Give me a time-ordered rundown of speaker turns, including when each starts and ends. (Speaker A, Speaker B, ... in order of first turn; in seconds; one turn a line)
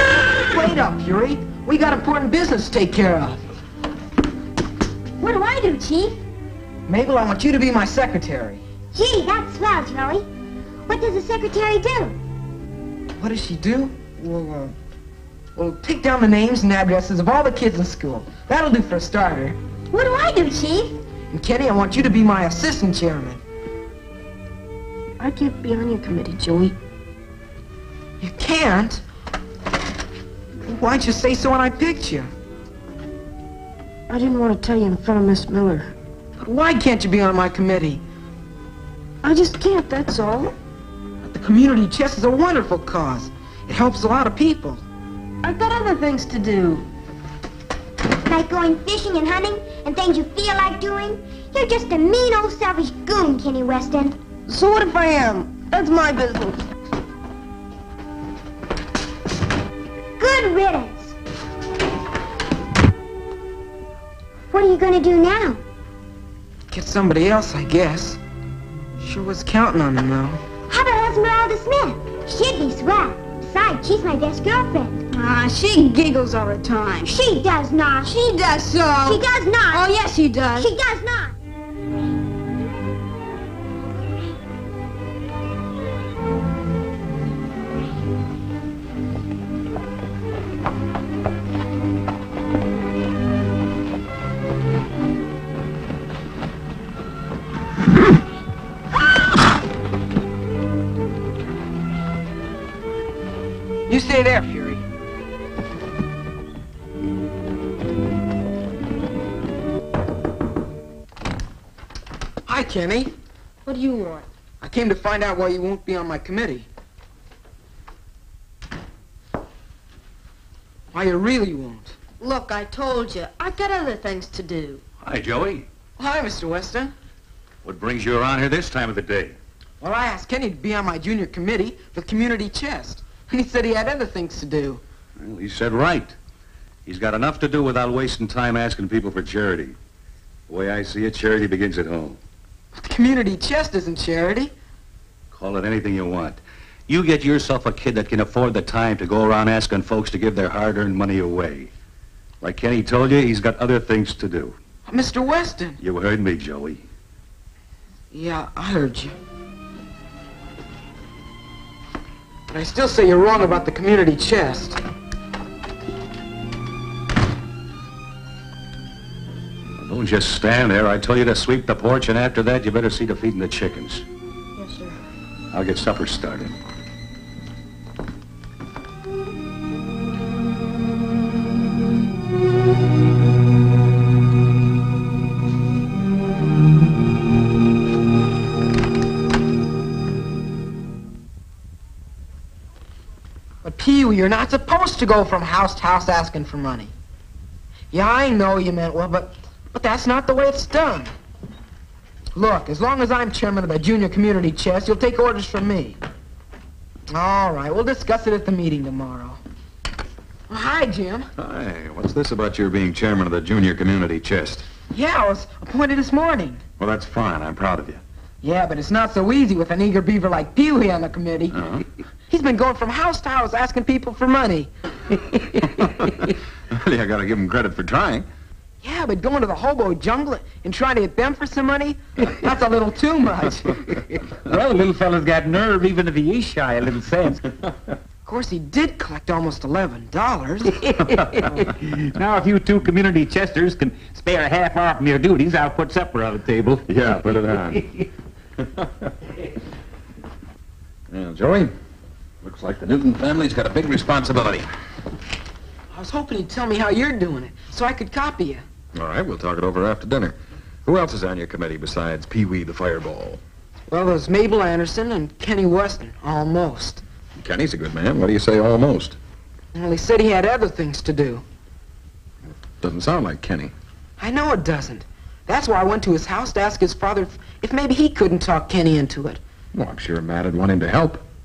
Speaker A: 0.5-3.4
Speaker B: 5.2-6.2
Speaker A: 6.9-8.6
Speaker B: 8.9-10.3
Speaker B: 10.9-12.2
Speaker A: 13.2-14.8
Speaker A: 15.6-19.6
Speaker B: 19.9-21.0
Speaker A: 21.3-23.4
Speaker C: 25.2-26.8
Speaker A: 28.2-29.0
Speaker A: 30.7-32.3
Speaker C: 34.1-35.9
Speaker A: 36.4-38.0
Speaker C: 39.2-40.5
Speaker A: 41.2-44.8
Speaker C: 45.4-46.9
Speaker B: 48.2-54.2
Speaker C: 54.5-56.6
Speaker B: 60.2-61.2
Speaker B: 64.5-65.6
Speaker A: 66.7-68.2
Speaker A: 69.0-70.4
Speaker B: 70.7-75.0
Speaker D: 75.1-77.1
Speaker B: 77.0-78.1
Speaker D: 78.0-80.7
Speaker B: 79.0-79.9
Speaker B: 80.5-81.3
Speaker A: 103.9-104.8
Speaker A: 112.5-113.1
Speaker C: 113.7-114.2
Speaker A: 114.6-116.7
Speaker A: 120.9-121.9
Speaker C: 122.2-124.8
Speaker E: 125.0-125.7
Speaker A: 126.0-126.9
Speaker E: 127.6-129.3
Speaker A: 129.8-134.8
Speaker E: 135.2-136.2
Speaker E: 136.8-139.8
Speaker E: 140.5-142.2
Speaker A: 142.7-144.5
Speaker E: 145.3-151.7
Speaker E: 152.4-154.6
Speaker A: 154.8-155.8
Speaker E: 155.8-156.8
Speaker A: 158.1-159.2
Speaker A: 162.5-164.8
Speaker E: 169.8-174.1
Speaker C: 174.6-174.9
Speaker E: 175.5-176.5
Speaker A: 193.6-196.9
Speaker A: 197.9-201.1
Speaker A: 202.3-206.0
Speaker A: 207.1-209.4
Speaker A: 210.5-211.3
Speaker F: 211.4-214.7
Speaker A: 214.9-216.6
Speaker F: 216.8-218.0
Speaker A: 218.4-221.6
Speaker F: 221.5-221.8
Speaker A: 222.3-224.7
Speaker F: 225.8-228.3
Speaker A: 228.8-233.8
Speaker G: 234.4-237.4
Speaker A: 238.3-240.8
Speaker G: 240.8-247.8
Speaker F: 246.8-247.8
Speaker F: 248.8-249.1
Speaker F: 251.1-251.7
Speaker F: 252.4-254.7
Speaker A: 255.9-258.6
Speaker F: 258.9-263.4
Speaker A: 263.9-267.0
Speaker F: 267.4-269.2
Speaker A: 269.8-271.4
Speaker F: 272.8-273.7
Speaker A: 274.2-279.4
Speaker F: 279.7-281.2